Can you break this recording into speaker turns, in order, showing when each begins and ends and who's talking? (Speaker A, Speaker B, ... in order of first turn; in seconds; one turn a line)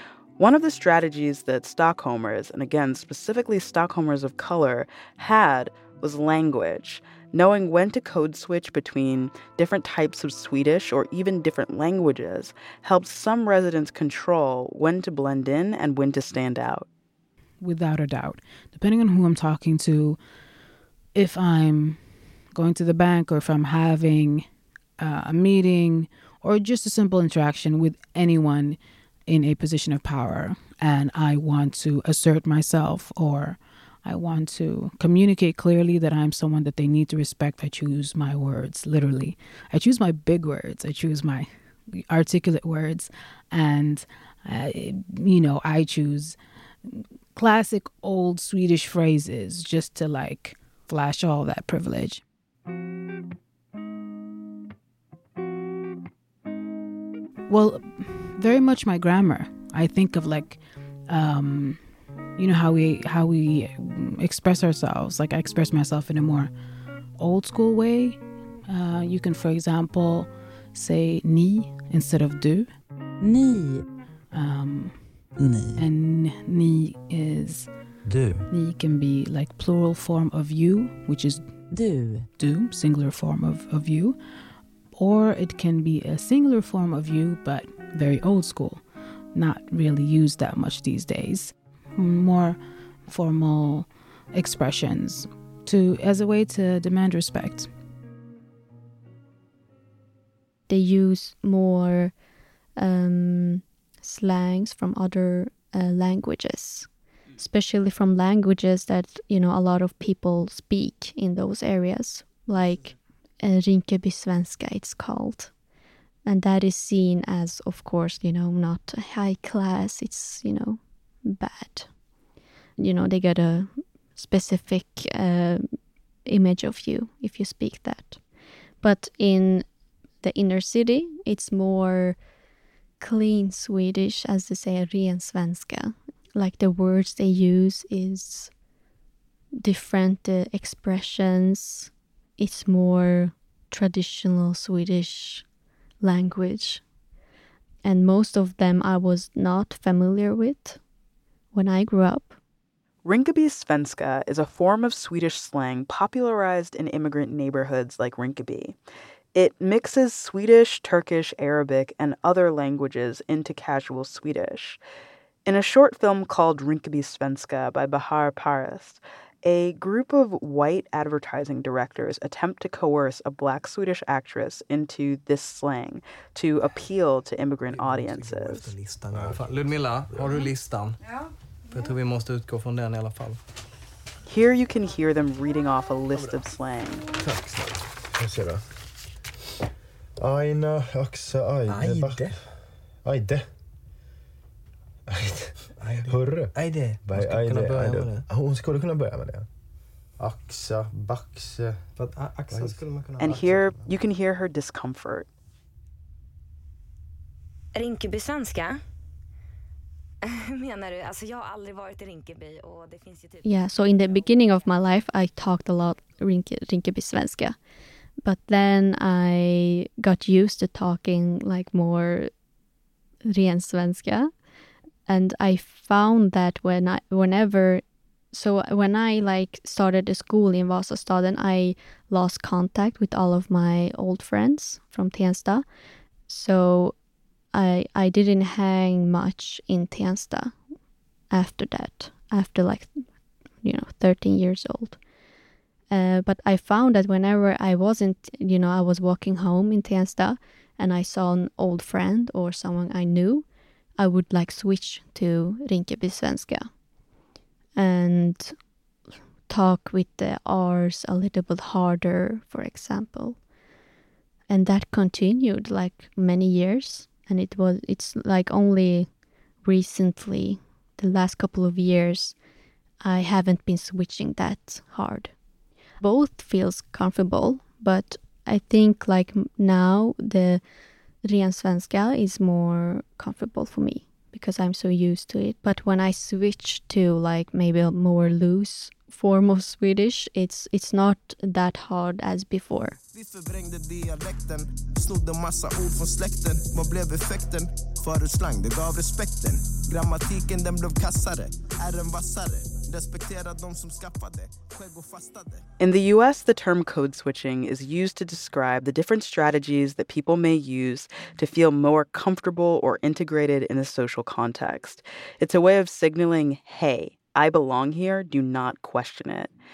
Speaker A: 0.4-16.9
Speaker B: 17.6-20.2
Speaker B: 21.1-24.5
Speaker B: 25.0-52.2
Speaker B: 57.5-66.5
Speaker B: 67.2-72.7
Speaker C: 73.2-73.8
Speaker B: 74.3-77.9
Speaker C: 75.4-75.8
Speaker C: 78.1-78.4
Speaker B: 78.5-81.7
Speaker C: 81.7-82.3
Speaker B: 82.4-84.2
Speaker B: 84.9-97.7
Speaker D: 100.7-102.2
Speaker D: 102.8-115.5
Speaker D: 116.2-121.9
Speaker D: 122.8-129.7
Speaker D: 130.2-132.2
Speaker D: 133.0-138.5
Speaker D: 139.5-145.4
Speaker D: 146.0-146.8
Speaker D: 147.8-150.8
Speaker D: 151.5-152.4
Speaker A: 153.0-158.8
Speaker A: 159.3-164.8
Speaker A: 165.4-178.7
Speaker C: 177.7-181.0
Speaker E: 179.1-180.4
Speaker C: 181.7-183.4
Speaker A: 184.2-187.1
Speaker E: 187.2-188.7
Speaker E: 190.2-193.5
Speaker C: 191.6-192.4
Speaker C: 195.8-198.3
Speaker E: 195.9-199.5
Speaker E: 200.2-203.0
Speaker C: 201.9-203.9
Speaker A: 203.2-205.3
Speaker F: 207.7-208.8
Speaker F: 210.3-213.4
Speaker D: 213.4-217.6
Speaker D: 218.2-222.3
Speaker D: 223.3-224.3
Speaker D: 225.1-235.7
Speaker D: 236.3-237.0
Speaker D: 237.5-240.7
Speaker D: 241.3-245.0
Speaker D: 245.9-256.7
Speaker D: 257.7-258.6
Speaker D: 259.5-263.4
Speaker D: 264.5-269.1
Speaker D: 269.6-272.4
Speaker D: 273.0-275.4
Speaker D: 276.0-280.6
Speaker D: 281.2-292.9
Speaker G: 293.1-305.6
Speaker A: 305.8-319.5